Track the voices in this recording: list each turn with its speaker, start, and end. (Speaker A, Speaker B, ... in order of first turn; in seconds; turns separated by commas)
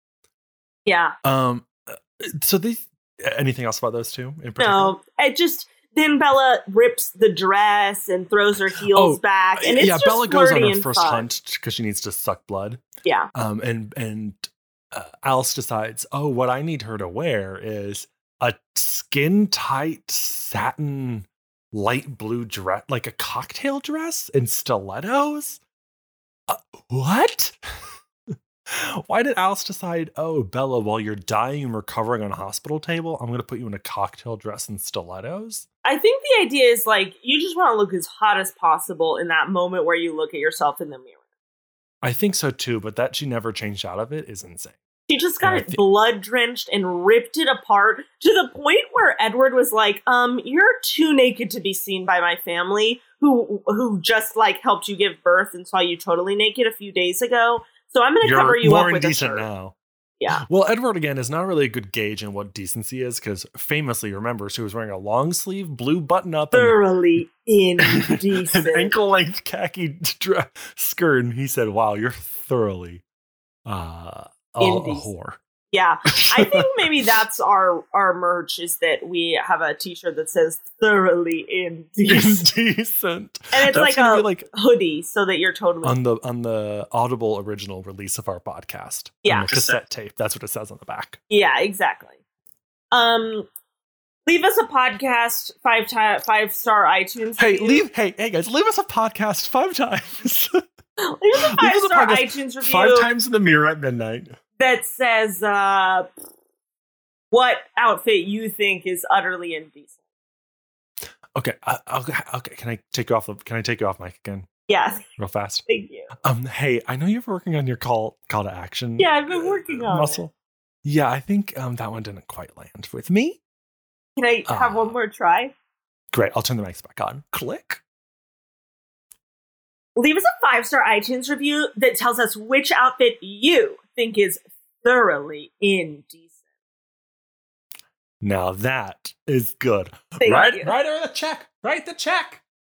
Speaker A: 0.8-1.1, Speaker B: 1.2-4.9, Speaker A: 4.6-11.3, Speaker B: 8.9-12.8, Speaker A: 13.0-13.3, Speaker B: 13.3-25.6, Speaker B: 26.5-27.6, Speaker B: 28.7-35.6, Speaker A: 35.8-41.1, Speaker B: 42.0-44.8, Speaker A: 45.1-59.5, Speaker B: 45.4-45.8, Speaker B: 58.2-59.7, Speaker B: 60.3-66.8, Speaker A: 66.5-68.9, Speaker B: 67.8-73.0, Speaker B: 73.7-75.4, Speaker A: 74.6-75.1, Speaker A: 75.7-82.4, Speaker B: 76.1-76.7, Speaker B: 82.1-84.5, Speaker A: 83.5-86.0, Speaker B: 85.8-91.2, Speaker A: 89.2-89.8, Speaker A: 91.3-92.2, Speaker A: 92.9-93.5, Speaker A: 94.2-97.8, Speaker B: 97.4-100.6, Speaker A: 101.0-103.1, Speaker B: 101.3-104.3, Speaker A: 104.6-106.1, Speaker A: 107.3-109.9, Speaker B: 111.3-114.5, Speaker A: 114.7-115.0, Speaker B: 115.2-115.7, Speaker A: 115.7-116.1, Speaker B: 116.2-120.3, Speaker A: 119.0-120.2, Speaker B: 120.8-123.4, Speaker A: 124.2-125.5, Speaker B: 124.5-124.9, Speaker B: 126.1-127.8, Speaker A: 129.9-136.2, Speaker B: 138.2-142.4, Speaker A: 140.2-140.7